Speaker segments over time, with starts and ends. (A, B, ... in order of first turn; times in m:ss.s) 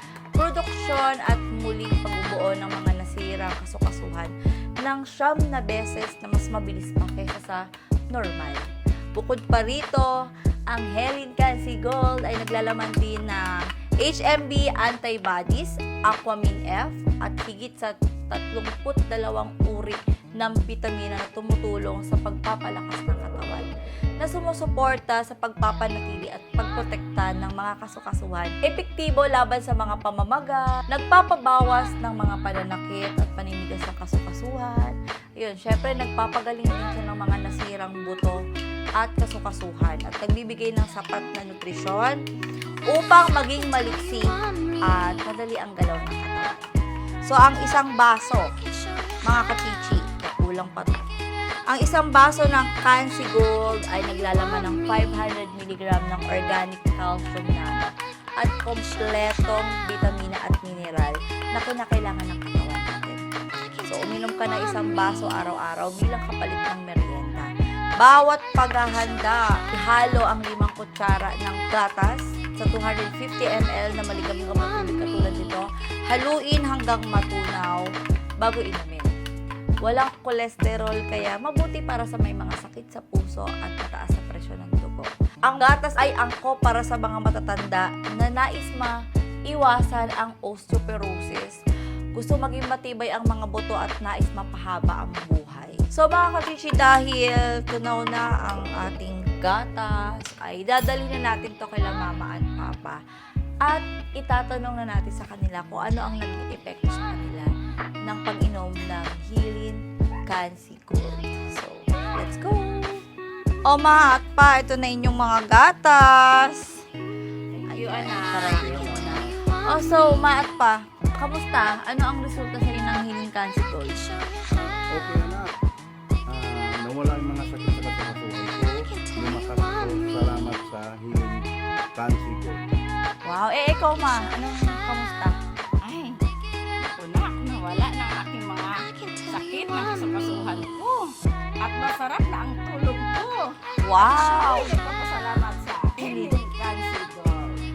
0:00.4-0:10.1 A
0:10.7-0:38.4 A
0:39.0-0:42.2 A
0:42.9-0:44.3 A
0:44.8-0:48.5 A
0:49.3-0:51.1 A
0:51.7-1:03.2 A
1:03.8-1:17.9 A
1:18.4-1:19.1 A
1:19.8-1:31.6 A
1:32.2-1:43.0 A
1:43.6-1:47.5 A
1:48.0-1:53.0 A
1:53.7-1:56.8 A
1:57.5-1:59.0 B
1:57.7-2:04.1 A
1:58.5-1:59.3 C
2:04.5-2:05.5 C
2:06.3-2:11.4 C
2:12.0-2:12.7 C
2:13.2-2:15.4 A
2:15.8-2:16.2 B
2:16.8-2:27.6 B
2:23.8-2:24.7 A
2:26.0-2:26.4 A